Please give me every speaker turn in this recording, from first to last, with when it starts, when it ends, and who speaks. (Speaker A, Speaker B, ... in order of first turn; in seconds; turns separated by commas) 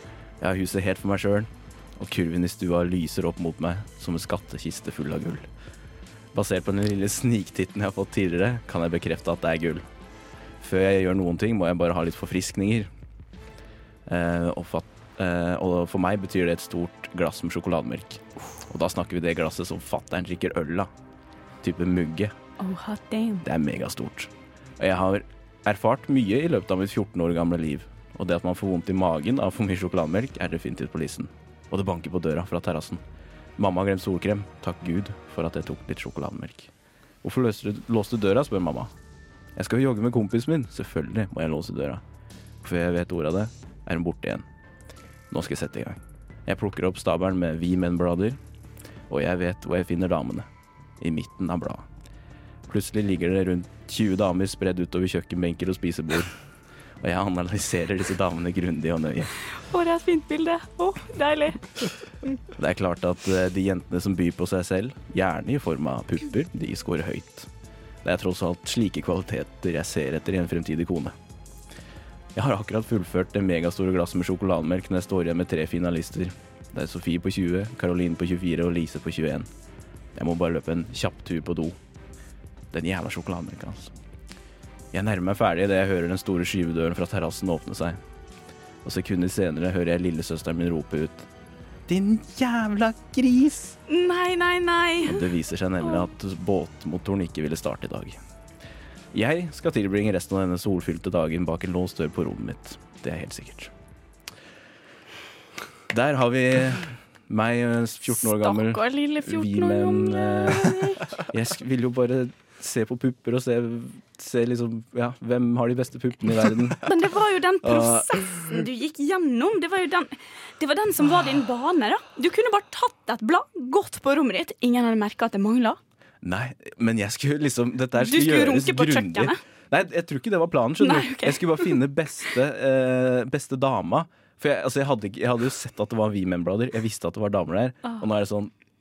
Speaker A: 0.4-5.5, Speaker A: 6.3-9.8, Speaker A: 10.6-12.9, Speaker A: 14.1-20.9, Speaker A: 21.6-22.3, Speaker B: 22.6-23.4, Speaker A: 23.4-33.0, Speaker A: 33.6-36.7, Speaker A: 37.2-38.9, Speaker A: 39.6-42.0, Speaker A: 42.6-44.5, Speaker A: 45.3-48.4, Speaker A: 49.1-50.5, Speaker A: 51.0-51.9, Speaker A: 52.7-56.4, Speaker A: 57.0-59.3, Speaker B: 59.6-61.7, Speaker A: 62.5-67.5, Speaker A: 68.0-71.2, Speaker A: 72.3-79.5, Speaker A: 80.2-81.8, Speaker A: 82.7-83.9, Speaker A: 84.9-88.0, Speaker A: 88.8-91.3, Speaker A: 91.9-93.8, Speaker B: 93.9-95.3, Speaker A: 95.0-98.2, Speaker A: 99.1-103.7, Speaker A: 105.9-116.9, Speaker B: 108.1-111.2, Speaker B: 116.8-125.8, Speaker A: 117.6-118.2, Speaker A: 126.2-138.5, Speaker B: 128.0-129.4, Speaker B: 130.8-131.8